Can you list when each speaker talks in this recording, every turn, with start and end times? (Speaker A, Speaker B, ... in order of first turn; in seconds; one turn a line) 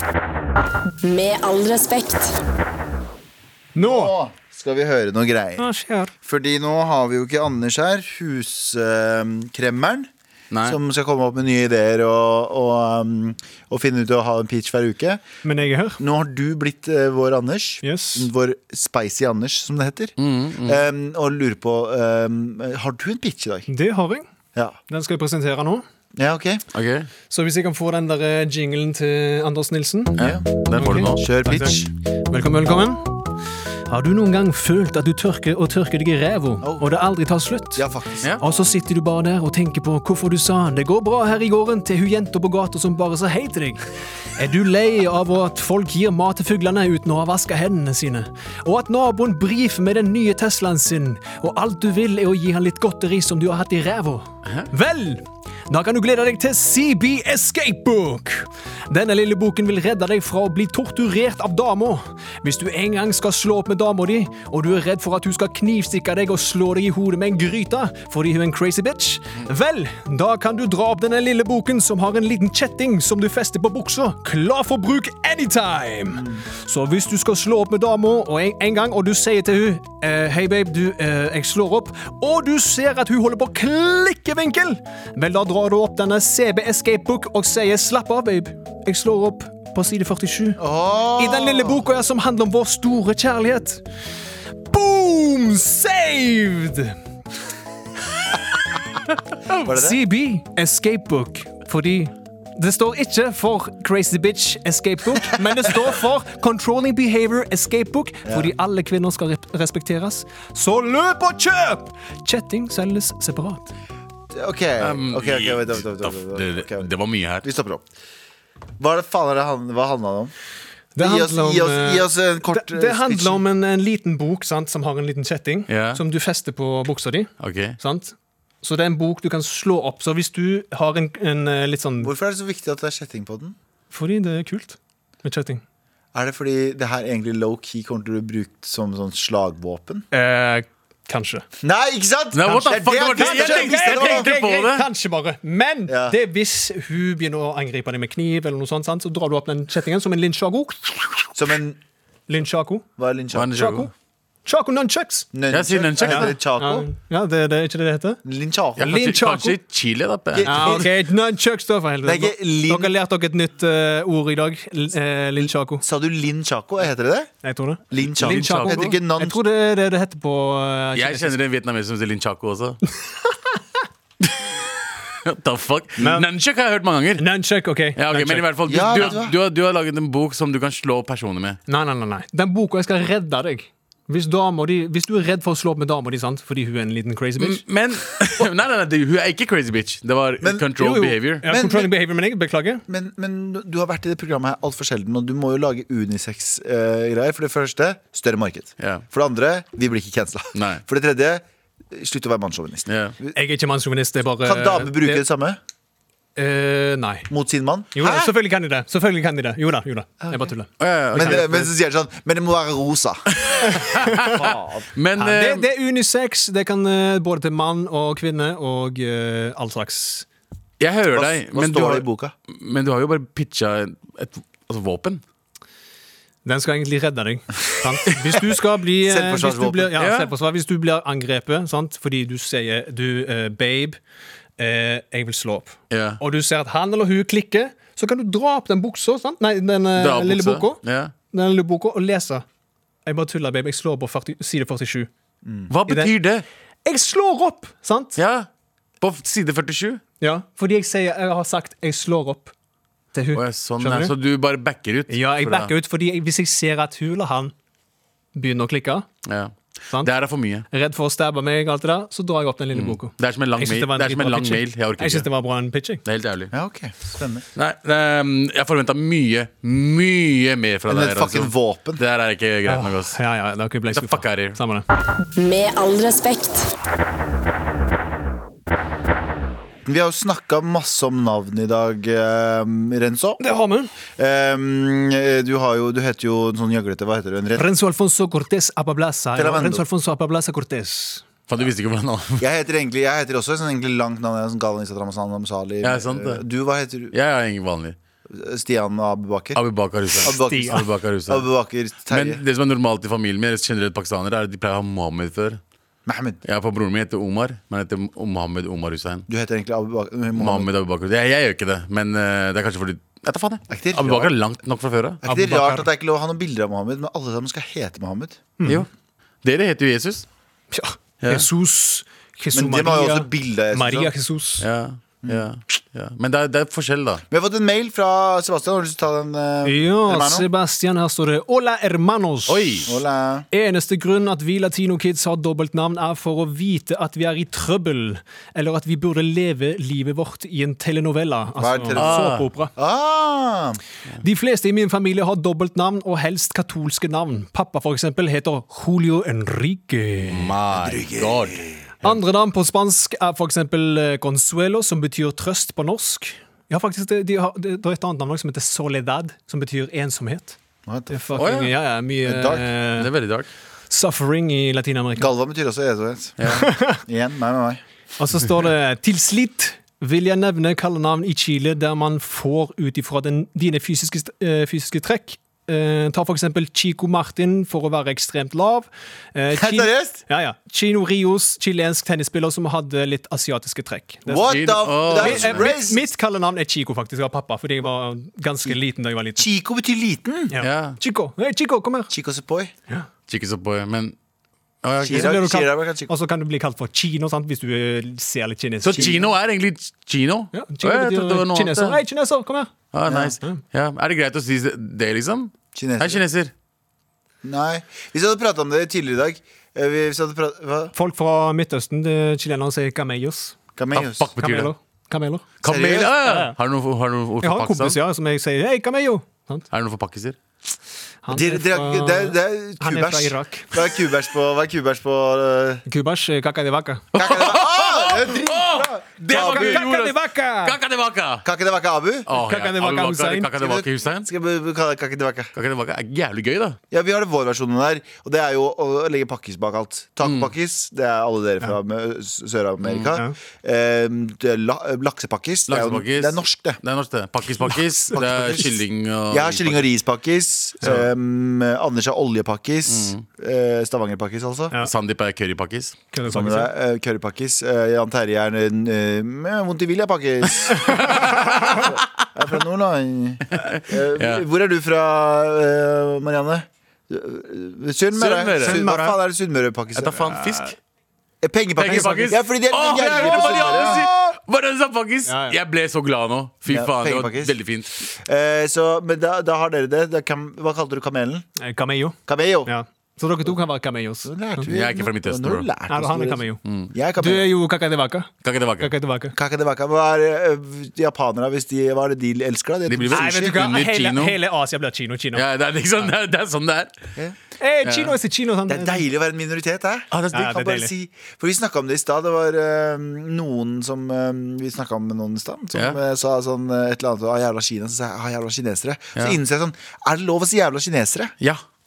Speaker A: 1.0-2.4
Speaker B: 3.7-4.1
Speaker C: 3.8-5.7
Speaker B: 5.6-6.1
Speaker C: 6.2-10.1
Speaker D: 10.5-10.8
Speaker C: 10.6-15.2
Speaker B: 15.4-16.0
Speaker C: 16.0-23.7
Speaker B: 17.8-18.3
Speaker D: 20.2-20.8
Speaker B: 23.7-24.2
Speaker B: 24.9-25.8
Speaker C: 26.1-26.6
Speaker D: 26.7-27.1
Speaker B: 27.3-33.0
Speaker D: 30.2-31.2
Speaker C: 31.1-31.9
Speaker B: 33.9-37.8
Speaker C: 36.6-36.9
Speaker C: 37.8-38.3
Speaker B: 38.4-43.8
Speaker B: 44.4-90.6
Speaker C: 90.6-91.8
Speaker B: 91.2-93.8
Speaker B: 94.7-97.0
Speaker C: 99.5-100.0
Speaker B: 99.6-113.7
Speaker C: 108.2-108.5
Speaker C: 114.3-116.9
Speaker D: 114.8-117.5
Speaker C: 117.4-117.8
Speaker C: 118.8-120.3
Speaker B: 120.9-132.1
Speaker C: 121.0-123.4
Speaker D: 125.7-126.0
Speaker D: 127.4-127.8
Speaker C: 132.0-133.5
Speaker B: 133.9-135.6
Speaker C: 136.1-140.1
Speaker B: 140.1-141.4
Speaker C: 141.6-144.3
Speaker D: 142.3-144.8
Speaker B: 143.2-151.3
Speaker C: 145.9-146.2
Speaker C: 151.3-151.8
Speaker B: 152.3-152.9
Speaker C: 153.0-153.6
Speaker D: 153.3-153.9
Speaker B: 153.5-153.9
Speaker B: 154.4-155.3
Speaker C: 155.3-156.9
Speaker D: 155.5-156.3
Speaker B: 156.0-158.2
Speaker C: 158.2-158.9
Speaker D: 158.8-160.8
Speaker B: 158.8-159.6
Speaker C: 160.3-160.9
Speaker B: 160.4-165.8
Speaker C: 162.0-162.9
Speaker C: 165.8-167.3
Speaker B: 167.4-171.4
Speaker C: 167.9-169.4
Speaker D: 168.2-168.8
Speaker D: 170.9-172.8
Speaker D: 175.2-177.2
Speaker B: 176.0-176.3
Speaker B: 177.2-178.5
Speaker D: 178.0-181.6
Speaker C: 178.7-179.3
Speaker B: 181.7-187.6
Speaker D: 187.4-191.4
Speaker C: 190.4-190.7
Speaker B: 190.8-192.8
Speaker C: 191.4-191.9
Speaker C: 192.9-203.3
Speaker D: 198.8-199.0
Speaker D: 200.5-200.8
Speaker D: 202.9-203.1
Speaker B: 203.3-205.2
Speaker C: 204.4-205.6
Speaker B: 206.3-207.3
Speaker C: 207.3-208.3
Speaker B: 207.9-211.6
Speaker C: 210.2-210.5
Speaker D: 210.8-211.7
Speaker C: 211.1-213.7
Speaker D: 213.3-214.4
Speaker B: 213.6-214.4
Speaker C: 214.2-214.9
Speaker D: 214.9-215.7
Speaker B: 215.2-220.3
Speaker D: 220.8-225.2
Speaker C: 221.1-222.3
Speaker B: 226.4-234.0
Speaker C: 229.0-229.9
Speaker D: 230.0-230.3
Speaker B: 234.6-240.8
Speaker D: 235.9-236.2
Speaker D: 239.9-241.1
Speaker B: 241.3-242.4
Speaker B: 243.0-245.1
Speaker C: 245.4-245.7
Speaker D: 245.7-246.4
Speaker B: 245.9-246.1
Speaker B: 246.8-248.2
Speaker D: 248.2-248.5
Speaker D: 249.0-250.0
Speaker B: 250.2-252.5
Speaker B: 253.1-254.1
Speaker D: 253.3-255.7
Speaker B: 255.1-257.5
Speaker B: 258.3-259.1
Speaker D: 259.2-260.6
Speaker B: 260.7-266.0
Speaker D: 262.7-265.3
Speaker D: 266.0-266.5
Speaker C: 266.5-267.4
Speaker D: 267.5-273.1
Speaker C: 270.9-272.0
Speaker B: 272.6-274.8
Speaker D: 273.9-274.6
Speaker A: 275.3-276.7
Speaker C: 279.9-283.4
Speaker B: 283.4-283.9
Speaker C: 284.2-287.7
Speaker B: 287.5-291.2
Speaker C: 289.4-289.8
Speaker D: 291.5-292.4
Speaker C: 292.4-297.1
Speaker D: 295.8-296.4
Speaker D: 297.1-297.9
Speaker C: 298.3-299.6
Speaker D: 299.5-301.5
Speaker C: 300.2-302.4
Speaker B: 300.4-300.9
Speaker D: 302.1-305.6
Speaker C: 306.1-306.4
Speaker D: 306.4-309.2
Speaker C: 309.3-310.7
Speaker D: 310.4-315.2
Speaker C: 313.7-314.3
Speaker C: 315.2-318.4
Speaker B: 315.2-315.9
Speaker B: 318.6-318.8
Speaker D: 319.4-320.3
Speaker B: 320.7-324.6
Speaker D: 321.2-321.5
Speaker C: 322.5-324.1
Speaker D: 324.6-327.2
Speaker C: 327.3-330.5
Speaker B: 329.6-332.8
Speaker D: 332.5-332.9
Speaker C: 332.9-333.5
Speaker B: 333.5-342.7
Speaker C: 341.6-343.8
Speaker D: 341.9-342.4
Speaker B: 344.2-350.5
Speaker D: 350.3-351.7
Speaker C: 350.7-352.1
Speaker B: 352.0-360.6
Speaker C: 360.9-361.1
Speaker B: 361.1-363.1
Speaker D: 361.4-361.7
Speaker C: 362.2-362.7
Speaker D: 363.0-363.5
Speaker B: 363.9-365.3
Speaker C: 365.2-367.8
Speaker D: 366.4-366.7
Speaker B: 366.5-367.0
Speaker B: 368.2-384.6
Speaker C: 379.5-380.2
Speaker C: 384.2-386.1
Speaker D: 384.5-385.7
Speaker B: 385.1-389.5
Speaker C: 389.4-390.5
Speaker B: 390.5-392.1
Speaker D: 390.6-391.0
Speaker C: 392.1-392.7
Speaker D: 393.3-394.1
Speaker D: 394.8-395.4
Speaker C: 395.0-396.1
Speaker B: 395.1-399.2
Speaker D: 398.8-402.0
Speaker C: 398.9-399.3
Speaker B: 400.5-403.6
Speaker D: 402.9-406.5
Speaker C: 403.1-403.3
Speaker C: 405.7-406.2
Speaker C: 407.4-410.9
Speaker B: 410.9-413.6
Speaker C: 413.8-414.3
Speaker D: 413.9-414.7
Speaker B: 414.4-415.5
Speaker D: 415.6-418.0
Speaker C: 415.6-416.1
Speaker B: 416.2-416.5
Speaker B: 417.4-419.7
Speaker D: 419.7-420.4
Speaker B: 421.2-423.8
Speaker C: 421.3-425.8
Speaker B: 425.9-427.1
Speaker C: 427.1-429.9
Speaker D: 427.1-431.4
Speaker B: 429.3-430.8
Speaker C: 431.4-432.3
Speaker D: 432.3-434.3
Speaker B: 432.3-433.5
Speaker C: 433.5-435.5
Speaker D: 435.5-436.8
Speaker C: 436.9-446.8
Speaker D: 440.2-440.5
Speaker D: 442.8-443.1
Speaker D: 445.7-449.9
Speaker C: 448.1-454.7
Speaker D: 452.9-453.2
Speaker D: 454.8-456.0
Speaker B: 456.1-456.7
Speaker C: 456.2-470.4
Speaker D: 460.7-462.0
Speaker D: 463.5-464.4
Speaker D: 468.1-468.8
Speaker B: 468.6-469.1
Speaker D: 469.9-470.8
Speaker C: 471.4-474.1
Speaker D: 471.8-477.9
Speaker B: 471.8-472.4
Speaker B: 472.9-473.8
Speaker B: 475.3-475.6
Speaker C: 476.7-481.4
Speaker B: 481.6-484.7
Speaker C: 482.3-482.7
Speaker C: 484.2-487.5
Speaker D: 484.7-485.7
Speaker B: 485.9-486.6
Speaker D: 486.6-486.9
Speaker B: 487.2-489.3
Speaker D: 488.4-488.9
Speaker C: 489.3-493.6
Speaker D: 492.9-494.4
Speaker B: 493.1-495.4
Speaker D: 495.3-496.9
Speaker B: 497.6-499.0
Speaker D: 497.8-498.1
Speaker C: 498.7-511.3
Speaker D: 500.1-500.6
Speaker B: 500.3-500.9